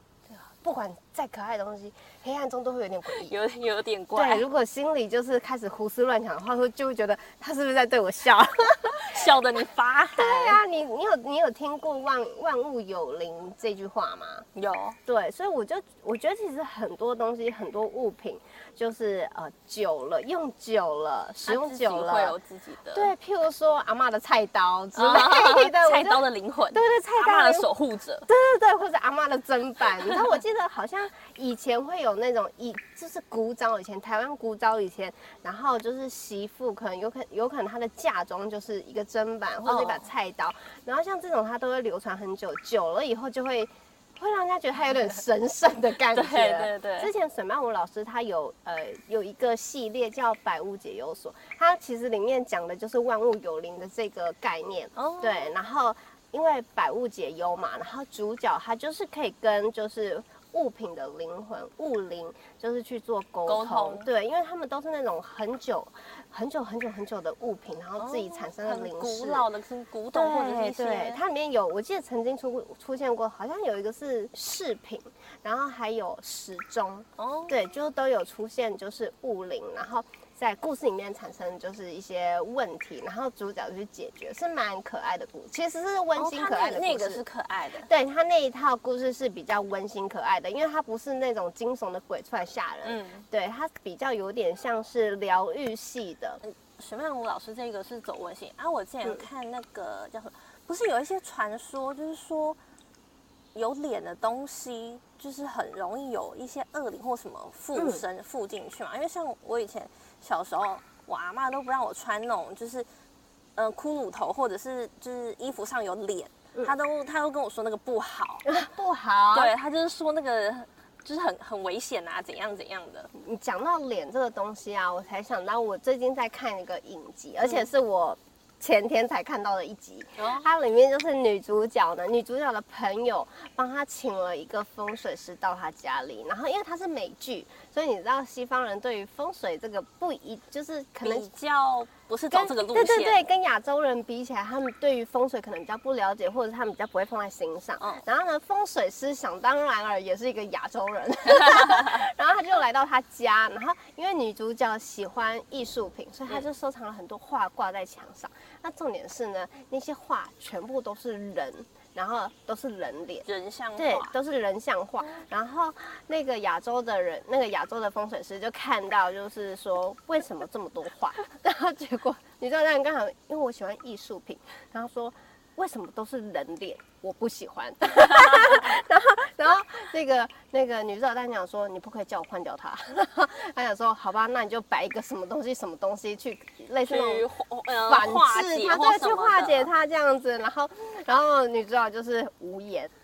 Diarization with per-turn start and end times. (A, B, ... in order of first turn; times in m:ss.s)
0:00.6-0:03.3 A
0:03.1-0:04.4 B
0:04.2-0:09.2 A
0:09.0-0:10.6 B
0:10.2-0:14.5 A
0:14.6-0:15.0 B
0:15.1-0:22.4 A
0:21.5-0:23.1 B
0:22.9-0:27.7 A
0:25.0-0:28.3 B
0:28.3-1:09.5 A
0:39.6-0:40.1 B
0:46.1-0:47.1 B
0:55.0-0:55.5 B
1:03.5-1:04.1 B
1:08.0-1:11.2 B
1:10.1-1:27.2 A
1:17.2-1:17.5 B
1:26.2-1:27.9 B
1:27.8-1:36.4 A
1:32.8-1:33.3 B
1:36.4-1:42.6 B
1:43.5-1:52.9 B
1:47.8-1:48.0 A
1:53.6-1:58.5 B
1:58.5-1:59.5 A
1:59.3-2:03.1 B
2:03.1-2:21.3 A
2:10.2-2:10.5 B
2:21.0-2:23.2 B
2:22.3-3:07.3 A
2:43.2-2:44.1 B
3:06.8-3:09.7 B
3:07.8-3:12.9 A